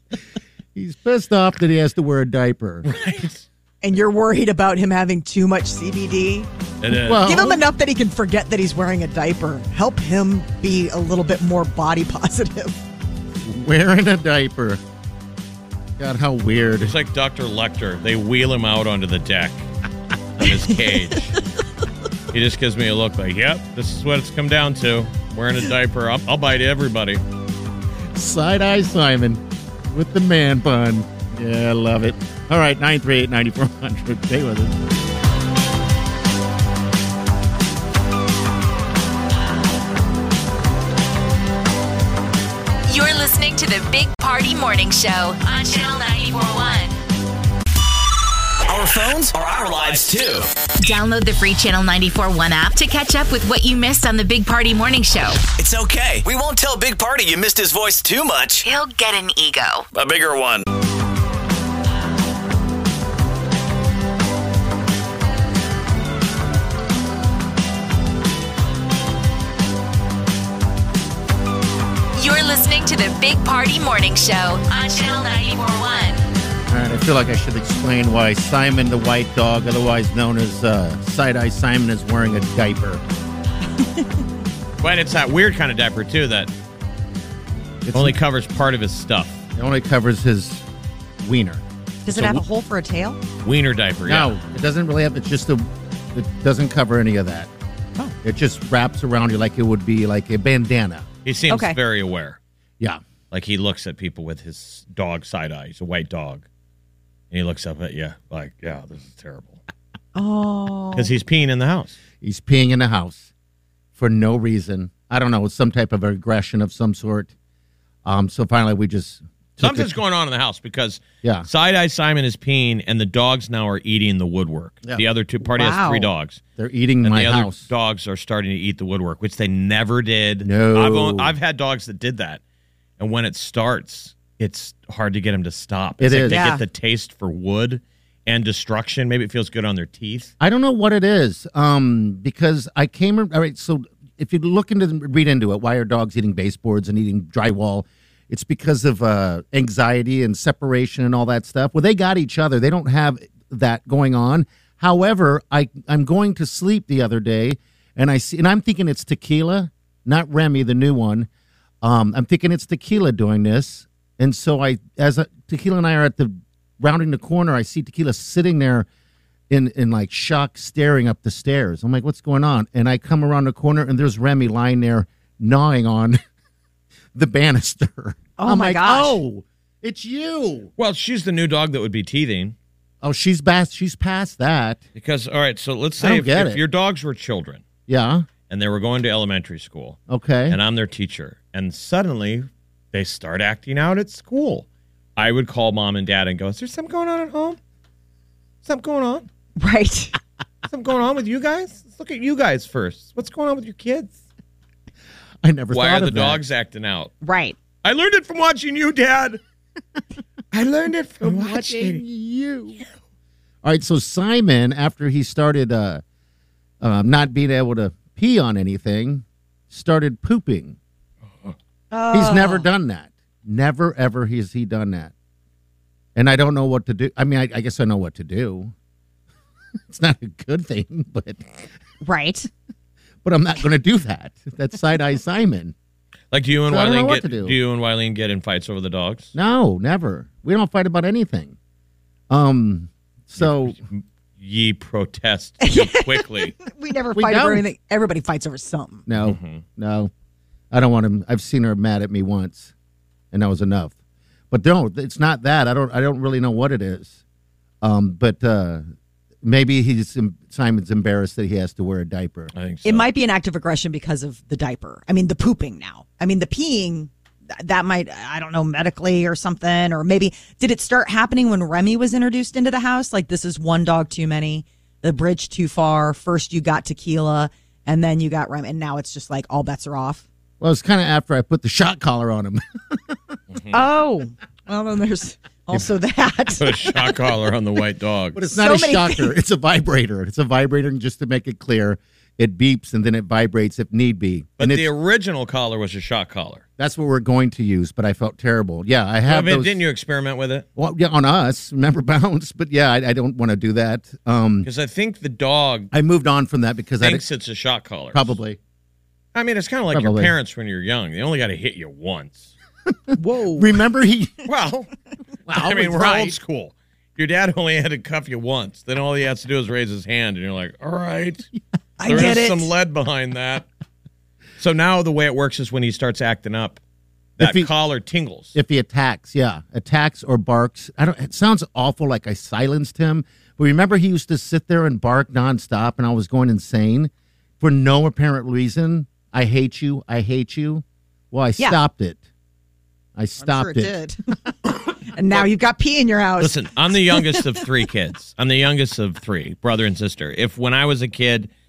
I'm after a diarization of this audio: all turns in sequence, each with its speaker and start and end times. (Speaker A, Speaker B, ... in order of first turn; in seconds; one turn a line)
Speaker A: 0.8-2.9
Speaker B: 2.9-3.4
Speaker C: 3.8-6.5
Speaker B: 6.8-7.5
Speaker A: 6.9-7.6
Speaker C: 7.2-12.8
Speaker A: 13.4-14.8
Speaker A: 16.0-16.9
Speaker B: 16.8-19.7
Speaker B: 20.4-21.4
Speaker B: 22.3-27.2
Speaker A: 28.1-34.8
Speaker D: 42.9-47.0
Speaker E: 48.7-50.5
Speaker D: 50.8-55.4
Speaker E: 55.5-58.7
Speaker D: 58.6-59.9
Speaker E: 59.9-60.6
Speaker D: 72.2-76.2
Speaker A: 76.7-83.0
Speaker C: 83.8-84.1
Speaker B: 84.8-86.5
Speaker A: 87.8-88.2
Speaker B: 87.9-89.4
Speaker A: 89.5-90.6
Speaker A: 91.2-91.6
Speaker C: 92.1-93.2
Speaker B: 93.4-94.3
Speaker A: 94.1-97.5
Speaker A: 98.2-101.1
Speaker B: 101.2-102.4
Speaker C: 101.5-101.8
Speaker B: 103.3-106.5
Speaker B: 107.3-109.6
Speaker C: 110.2-111.1
Speaker B: 111.0-112.0
Speaker A: 112.2-113.3
Speaker A: 114.0-117.3
Speaker A: 118.0-119.9
Speaker B: 119.6-126.4
Speaker C: 125.5-126.1
Speaker A: 126.6-127.7
Speaker B: 127.0-132.4
Speaker A: 130.4-131.3
Speaker B: 133.0-140.3
Speaker A: 136.0-136.5
Speaker C: 136.3-136.6
Speaker A: 140.4-161.3
Speaker A: 161.8-168.9
Speaker A: 169.5-176.2
Speaker A: 177.1-180.7
Speaker C: 178.4-179.2
Speaker B: 180.8-182.6
Speaker A: 183.0-184.8
Speaker B: 185.0-187.6
Speaker A: 186.0-186.6
Speaker A: 187.9-188.3
Speaker B: 188.5-194.7
Speaker A: 190.1-190.6
Speaker B: 195.2-197.6
Speaker B: 198.7-199.3
Speaker C: 199.6-200.2
Speaker B: 200.7-204.1
Speaker A: 205.4-206.4
Speaker B: 205.7-207.1
Speaker C: 207.2-207.6
Speaker B: 207.8-209.4
Speaker B: 210.5-212.0
Speaker A: 211.2-212.8
Speaker A: 213.6-216.0
Speaker A: 216.8-220.8
Speaker C: 221.9-222.7
Speaker A: 222.1-225.1
Speaker A: 226.2-228.7
Speaker A: 229.9-231.7
Speaker C: 232.0-232.5
Speaker A: 233.2-235.7
Speaker B: 236.3-239.3
Speaker A: 236.7-237.6
Speaker A: 239.3-241.6
Speaker A: 242.3-243.8
Speaker B: 243.4-246.6
Speaker C: 245.6-249.1
Speaker A: 247.1-247.6
Speaker A: 249.1-250.1
Speaker B: 249.2-249.6
Speaker A: 250.7-252.7
Speaker A: 253.3-253.9
Speaker A: 254.5-257.2
Speaker A: 257.8-258.9
Speaker A: 259.4-262.5
Speaker B: 262.5-263.1
Speaker C: 262.8-280.2
Speaker A: 280.6-283.3
Speaker C: 283.7-286.9
Speaker B: 286.6-288.4
Speaker A: 288.3-294.9
Speaker C: 288.5-289.3
Speaker B: 294.6-296.6
Speaker A: 296.8-299.8
Speaker B: 299.3-300.7
Speaker A: 300.8-304.7
Speaker B: 304.6-305.9
Speaker A: 305.9-307.2
Speaker B: 307.0-308.4
Speaker A: 308.1-308.6
Speaker B: 309.3-312.5
Speaker A: 309.9-310.3
Speaker C: 313.1-313.7
Speaker A: 313.5-314.5
Speaker B: 314.5-314.9
Speaker A: 315.5-316.4
Speaker B: 315.6-321.5
Speaker C: 322.0-322.7
Speaker B: 322.1-323.7
Speaker B: 324.6-326.8
Speaker B: 327.4-328.6
Speaker A: 327.4-327.7
Speaker A: 328.6-342.2
Speaker A: 343.2-343.9
Speaker C: 343.4-344.2
Speaker C: 345.1-346.6
Speaker B: 346.4-351.5
Speaker C: 347.1-347.4